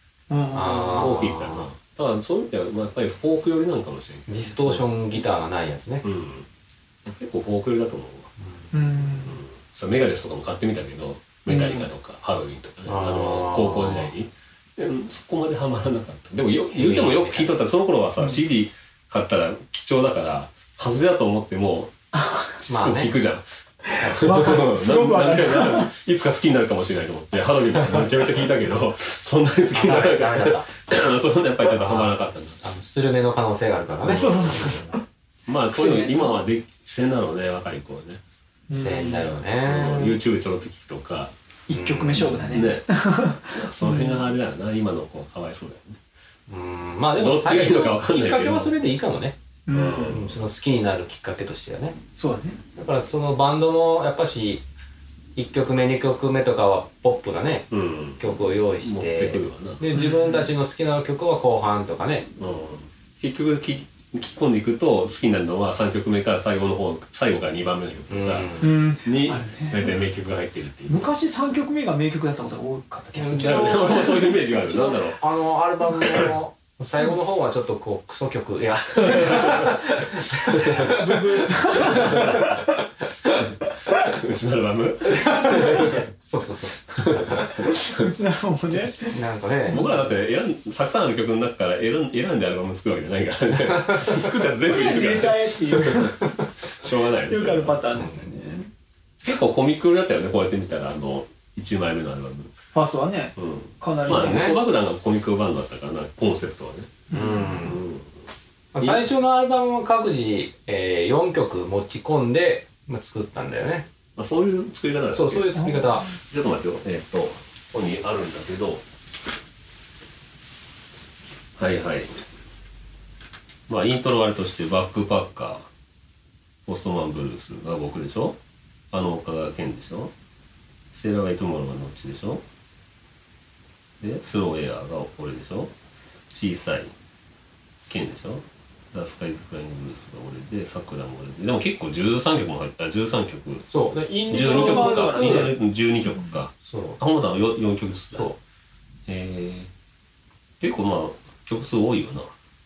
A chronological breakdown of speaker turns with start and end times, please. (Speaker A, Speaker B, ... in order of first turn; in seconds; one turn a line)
Speaker A: 0.3-1.2
Speaker B: 0.5-1.7
Speaker C: 0.7-4.8
Speaker B: 4.3-6.0
Speaker C: 6.0-6.5
Speaker C: 7.0-8.3
Speaker A: 8.7-9.4
Speaker C: 9.2-21.9
Speaker A: 11.5-11.9
Speaker B: 12.8-14.1
Speaker B: 16.7-17.5
Speaker C: 22.6-23.4
Speaker B: 22.7-23.1
Speaker A: 23.8-25.9
Speaker B: 24.0-24.7
Speaker C: 24.1-32.6
Speaker B: 29.7-30.8
Speaker B: 31.6-35.0
Speaker C: 34.0-34.7
Speaker A: 34.0-35.0
Speaker C: 35.5-38.2
Speaker A: 35.7-36.4
Speaker A: 38.7-39.2
Speaker B: 38.7-40.2
Speaker C: 39.0-41.3
Speaker A: 41.7-44.3
Speaker B: 41.7-42.6
Speaker C: 42.2-46.0
Speaker B: 46.5-49.4
Speaker C: 47.1-48.7
Speaker A: 49.7-50.1
Speaker C: 49.7-50.4
Speaker B: 50.0-52.0
Speaker A: 52.1-52.6
Speaker B: 52.8-54.6
Speaker B: 55.4-62.3
Speaker C: 57.7-59.9
Speaker A: 59.9-60.5
Speaker C: 62.4-71.1
Speaker B: 68.1-68.8
Speaker A: 68.6-70.0
Speaker A: 70.9-73.9
Speaker B: 73.1-82.5
Speaker C: 73.3-75.2
Speaker C: 76.0-76.3
Speaker C: 79.0-79.6
Speaker A: 80.8-82.7
Speaker C: 81.8-82.4
Speaker C: 83.9-86.0
Speaker B: 85.1-87.6
Speaker C: 86.9-87.9
Speaker A: 87.7-89.9
Speaker B: 88.7-90.1
Speaker C: 89.7-98.1
Speaker A: 94.7-96.3
Speaker A: 97.3-98.7
Speaker C: 99.2-102.5
Speaker A: 102.7-104.6
Speaker C: 103.3-108.1
Speaker B: 104.1-104.6
Speaker A: 107.1-107.6
Speaker B: 107.1-107.8
Speaker B: 108.7-113.9
Speaker C: 108.8-109.1
Speaker C: 114.2-118.8
Speaker B: 115.1-116.1
Speaker C: 121.6-122.2
Speaker C: 123.7-125.6
Speaker C: 126.7-128.4
Speaker C: 128.9-130.1
Speaker C: 130.9-132.4
Speaker C: 134.0-135.7
Speaker C: 136.3-136.9
Speaker C: 137.9-143.7
Speaker B: 143.7-145.5
Speaker A: 144.3-145.6
Speaker C: 144.3-148.3
Speaker B: 146.6-147.0
Speaker C: 149.1-149.7
Speaker C: 150.6-152.3